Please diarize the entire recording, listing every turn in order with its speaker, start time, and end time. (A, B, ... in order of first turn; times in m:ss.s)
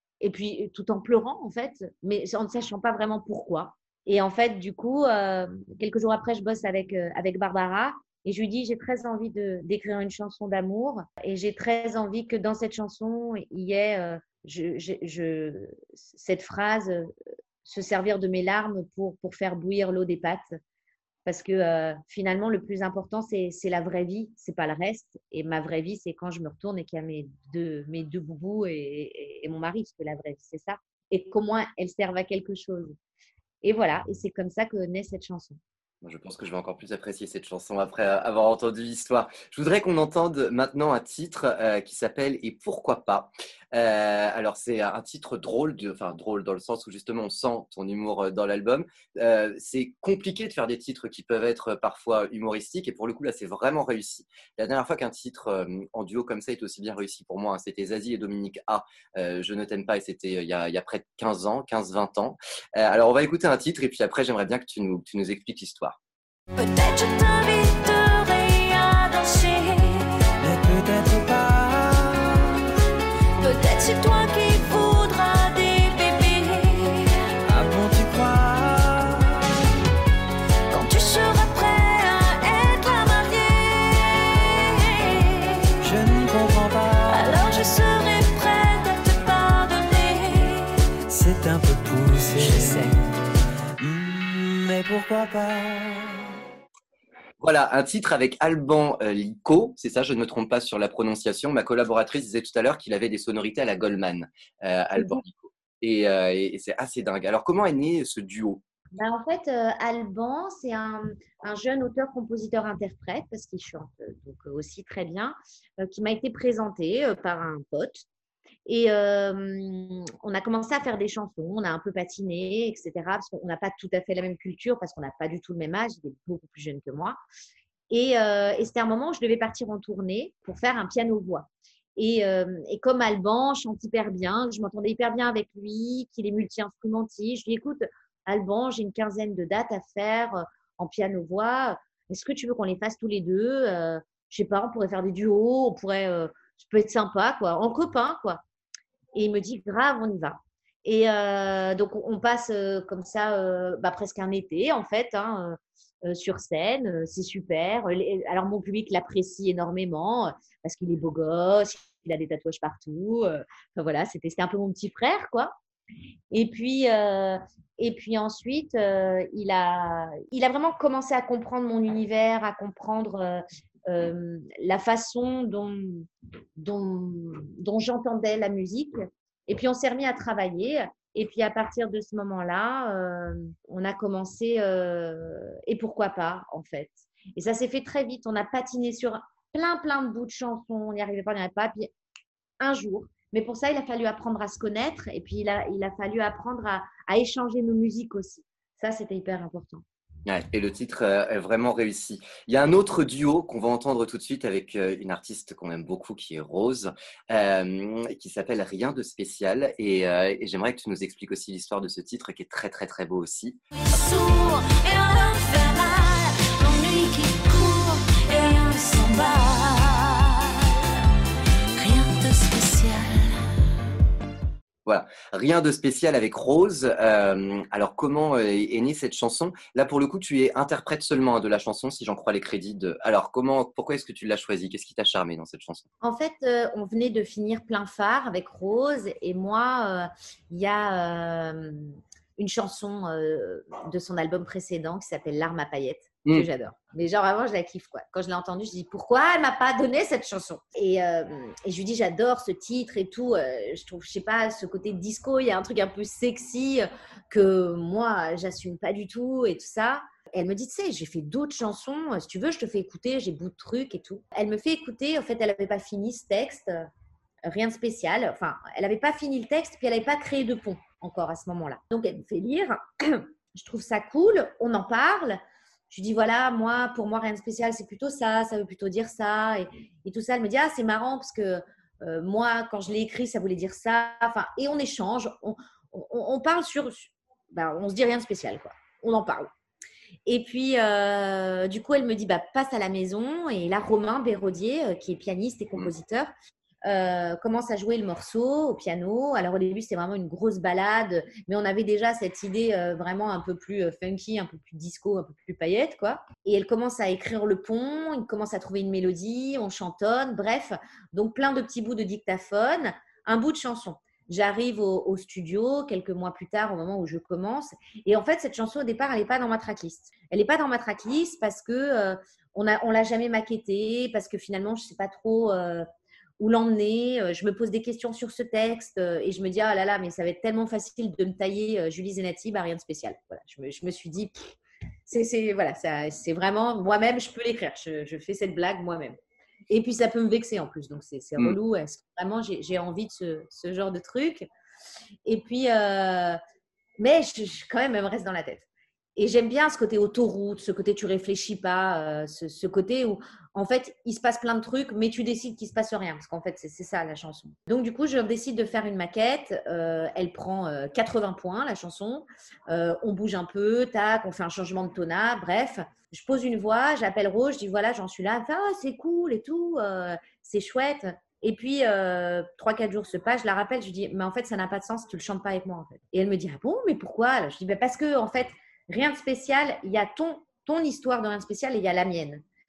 0:00.2-0:17.1 A
0:17.6-0:20.4 A
0:21.2-0:33.0 A
0:33.6-0:35.6 A
0:36.0-1:06.0 B
1:06.6-1:10.2 C
1:10.4-1:12.4 D
1:13.4-1:17.1 C
1:17.4-1:19.3 D
1:20.7-1:25.7 C
1:25.8-1:27.7 D
1:27.1-1:30.7 C
1:31.1-1:33.0 D
1:32.4-1:32.8 C
1:33.8-1:36.3 D
1:37.4-1:48.6 B
1:45.0-1:45.2 A
1:49.0-1:58.0 A
1:58.6-2:07.2 A
2:07.9-2:28.4 A
2:29.1-2:45.5 A
2:46.3-3:11.9 A
3:12.6-3:19.8 A
3:20.2-3:33.6 B
3:33.9-3:40.7 C
3:41.8-3:43.4 C
3:44.8-3:55.8 B
3:56.0-4:26.8 A
4:27.5-4:49.5 A
4:50.2-4:56.3 A
4:56.8-5:25.8 A
5:26.4-5:34.6 A
5:35.1-5:39.2 A
5:39.7-5:44.5 A
5:45.2-5:46.4 A
5:47.0-6:22.4 A